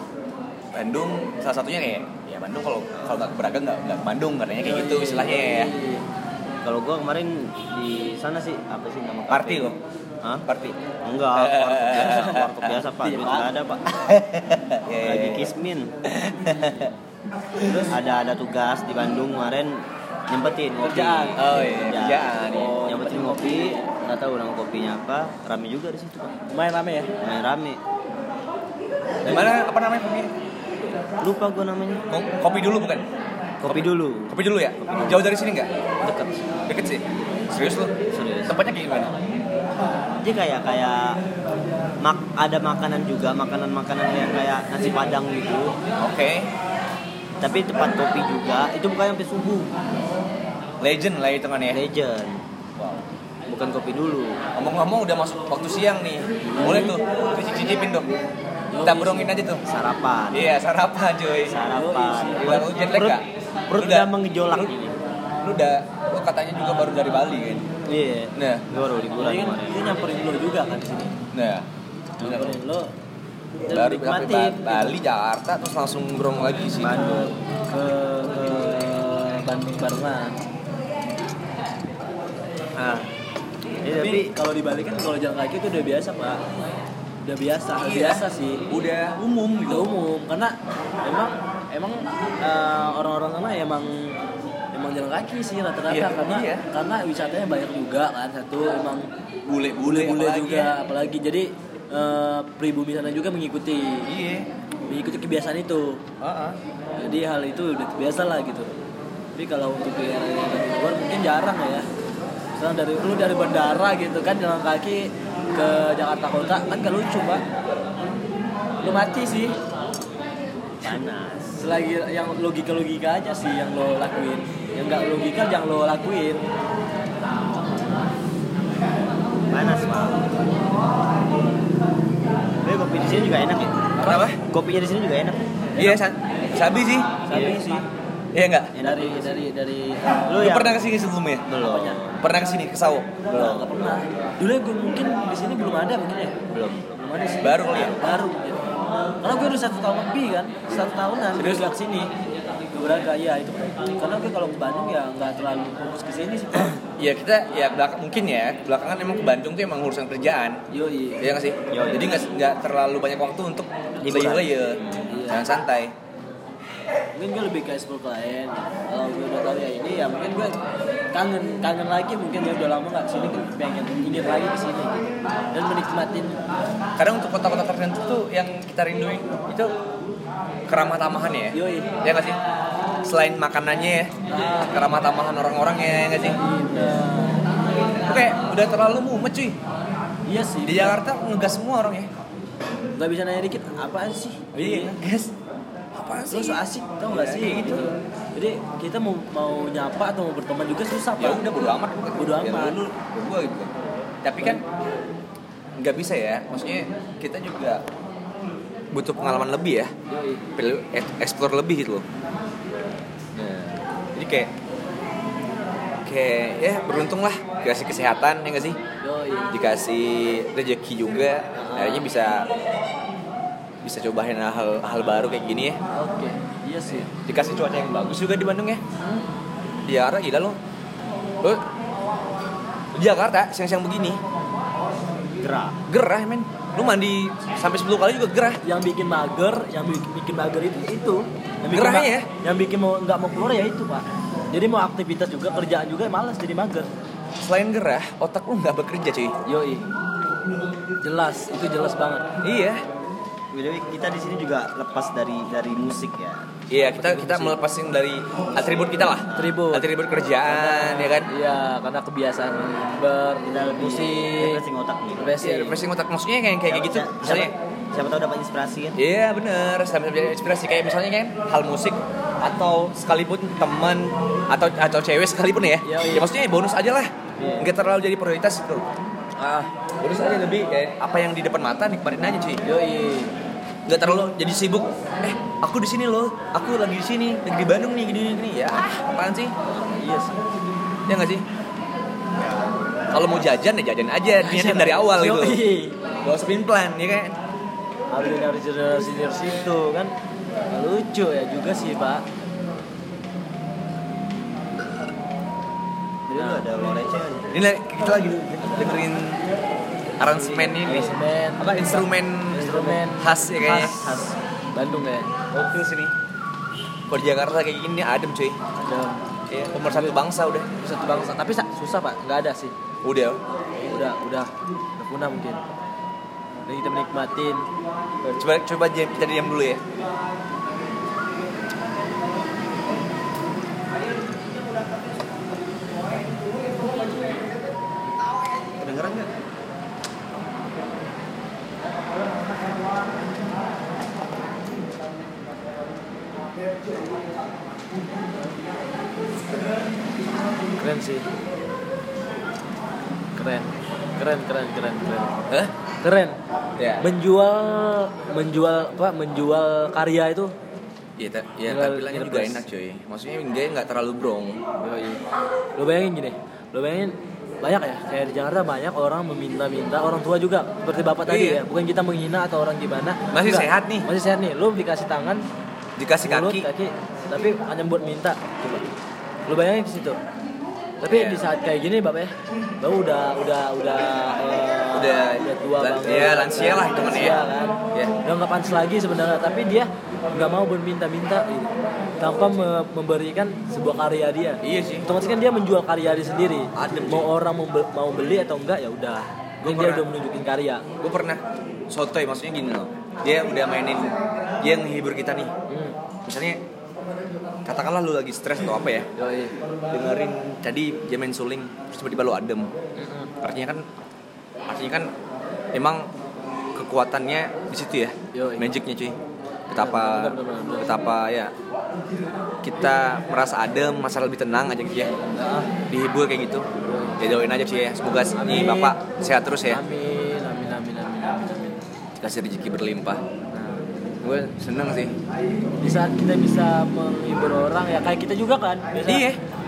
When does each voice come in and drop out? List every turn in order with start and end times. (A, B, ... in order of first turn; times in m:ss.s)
0:00.7-0:05.7 A
0:04.6-0:06.0 B
0:06.6-0:10.5 C
0:09.3-0:09.8 A
0:10.5-0:10.7 A
0:11.0-0:15.9 C
0:11.3-0:12.8 A
0:13.0-0:13.5 B
0:14.8-0:15.5 A
0:16.0-0:16.9 A
0:17.6-0:17.9 B
0:17.8-0:26.4 C
0:20.8-0:21.4 B
0:21.4-0:22.7 A
0:22.5-0:23.8 B
0:26.5-0:27.1 B
0:27.2-0:27.8 C
0:29.2-0:29.5 C
0:29.2-0:30.3 A
0:31.2-0:32.0 C
0:32.1-0:33.0 A
0:33.6-0:35.3 C
0:33.6-0:35.7 A
0:36.0-0:36.4 C
0:36.7-0:37.9 A
0:38.1-0:38.6 C
0:38.4-0:39.1 A
0:40.2-0:41.2 C
0:42.0-0:45.8 C
0:46.0-0:46.5 A
0:47.4-0:49.7 C
0:50.8-0:51.8 A
0:51.7-0:54.4 C
0:54.6-0:58.1 A
0:56.5-0:56.9 B
0:56.6-0:56.9 C
0:58.7-0:59.3 B
0:58.8-0:59.6 A
0:59.6-1:00.5 C
1:00.3-1:01.6 A
1:01.5-1:05.0 C
1:01.6-1:02.7 B
1:02.4-1:03.2 A
1:03.8-1:04.1 A
1:05.4-1:07.6 A
1:07.9-1:09.9 C
1:08.4-1:08.6 A
1:09.2-1:11.2 B
1:11.3-1:11.6 A
1:12.2-1:12.9 B
1:12.2-1:12.6 A
1:13.7-1:14.9 C
1:13.7-1:17.3 A
1:16.8-1:17.3 C
1:16.9-1:20.4 B
1:22.8-1:23.1 C
1:23.8-1:24.3 C
1:23.9-1:26.4 B
1:27.2-1:28.6 B
1:27.8-1:29.9 A
1:29.7-1:39.1 B
1:35.9-1:36.6 A
1:39.4-1:40.7 A
1:39.8-1:44.1 B
1:44.0-1:44.5 A
1:44.9-1:46.0 B
1:46.2-1:46.6 A
1:47.0-1:48.7 B
1:49.3-1:51.8 B
1:52.6-1:57.4 B
1:58.8-1:59.6 B
2:00.8-2:01.6 C
2:01.6-2:06.4 B
2:09.5-2:10.3 C
2:12.6-2:13.9 C
2:14.0-2:14.2 B
2:14.0-2:14.4 A
2:14.4-2:15.4 C
2:15.8-2:17.2 A
2:17.2-2:17.8 B
2:17.3-2:17.8 C
2:18.3-2:18.7 A
2:18.7-2:19.3 C
2:18.8-2:20.3 B
2:20.3-2:20.9 C
2:20.4-2:21.4 A
2:21.5-2:22.2 C
2:21.6-2:22.0 B
2:22.2-2:23.5 A
2:23.3-2:23.7 C
2:23.3-2:26.3 B
2:26.5-2:27.0 C
2:27.0-2:28.6 B
2:27.4-2:28.0 A
2:29.2-2:32.1 B
2:31.4-2:31.8 A
2:32.7-2:36.7 B
2:37.0-2:40.6 A
2:40.7-2:41.2 B
2:41.2-2:45.9 A
2:41.7-2:42.3 C
2:44.0-2:45.1 C
2:45.1-2:45.4 B
2:47.2-2:50.6 B
2:51.1-2:56.4 B
2:57.0-2:59.7 A
3:00.7-3:02.4 A
3:01.5-3:01.9 B
3:03.0-3:06.4 A
3:04.3-3:04.8 B
3:06.2-3:07.5 B
3:08.0-3:09.6 A
3:10.3-3:11.0 B
3:10.6-3:12.1 A
3:13.0-3:15.0 B
3:14.5-3:15.3 A
3:15.9-3:16.6 A
3:16.3-3:22.8 B
3:17.1-3:17.9 A
3:21.2-3:23.7 A
3:24.2-3:24.6 A
3:25.8-3:27.8 A
3:28.9-3:29.9 A
3:30.1-3:30.4 B
3:30.6-3:32.0 A
3:33.3-3:34.5 A
3:36.0-3:38.8 A
3:39.0-3:39.5 B
3:39.5-3:42.5 A
3:41.6-3:42.1 B
3:43.8-3:45.8 A
3:45.9-3:47.1 B
3:46.9-3:48.8 A
3:49.8-3:50.6 A
3:52.9-3:54.2 A
3:55.4-3:55.8 C
3:55.9-3:58.6 A
3:58.6-4:06.9 B
4:01.7-4:02.3 A
4:07.4-4:09.4 A
4:09.4-4:09.9 B
4:11.0-4:12.2 B
4:12.4-4:12.8 A
4:13.5-4:16.5 C
4:16.7-4:21.3 A
4:16.9-4:17.6 B
4:19.3-4:19.8 B
4:20.4-4:24.6 B
4:23.4-4:25.3 C
4:25.2-4:25.8 B
4:25.4-4:27.5 A
4:26.7-4:29.0 C
4:29.0-4:38.8 A
4:35.8-4:36.3 B
4:39.4-4:39.7 B
4:40.0-4:42.6 A
4:42.6-4:43.3 B
4:43.8-4:49.5 A
4:49.7-4:50.4 B
4:51.1-4:51.4 A
4:52.4-4:52.8 C
4:53.1-4:55.6 A
4:54.4-4:56.0 B
4:56.2-4:57.3 A
4:58.1-5:00.1 B
5:00.7-5:02.2 B
5:06.3-5:07.6 C
5:06.4-5:06.6 B
5:07.5-5:09.4 A
5:10.2-5:14.0 A
5:10.2-5:15.3 B
5:13.9-5:14.3 C
5:15.5-5:16.1 A
5:17.1-5:18.6 A
5:18.8-5:19.2 B
5:19.5-5:20.7 A
5:19.8-5:20.2 B
5:20.8-5:22.7 B
5:23.0-5:23.4 A
5:23.8-5:25.6 B
5:26.7-5:27.6 B
5:28.2-5:29.8 A
5:38.7-5:39.3 C
5:50.8-5:51.3 B
5:53.4-5:55.4 B
5:56.0-5:56.4 B
5:56.8-5:57.0 A
5:57.0-6:00.5 B
6:01.2-6:04.6 A
6:01.7-6:02.6 B
6:04.8-6:05.2 B
6:05.8-6:15.4 B
6:11.3-6:11.6 A
6:13.3-6:14.1 A
6:16.0-6:16.7 A
6:16.2-6:18.8 B
6:19.5-6:20.2 B
6:21.0-6:40.8 B
6:21.1-6:21.5 A
6:24.9-6:27.4 A
6:34.6-6:35.1 A
6:36.7-6:37.3 A
6:39.6-6:40.0 A
6:41.0-6:45.5 A
6:45.7-6:46.0 B
6:46.2-6:46.6 A
6:47.6-6:49.1 A
6:49.2-6:49.5 B
6:49.9-6:52.7 A
6:53.0-6:53.3 B
6:53.4-6:53.8 A
6:54.7-6:55.1 A
6:55.7-6:56.1 A
6:56.7-6:59.2 A
6:58.3-6:58.7 B
6:59.7-7:01.5 A
6:59.7-7:01.0 B
7:02.6-7:05.1 A
7:05.4-7:05.7 B
7:05.9-7:06.7 A
7:06.8-7:07.2 B
7:07.2-7:09.8 A
7:08.3-7:09.0 B
7:09.7-7:11.7 B
7:12.2-7:13.2 A
7:13.5-7:13.8 B
7:14.2-7:15.1 A
7:15.8-7:19.2 B
7:19.0-7:19.4 A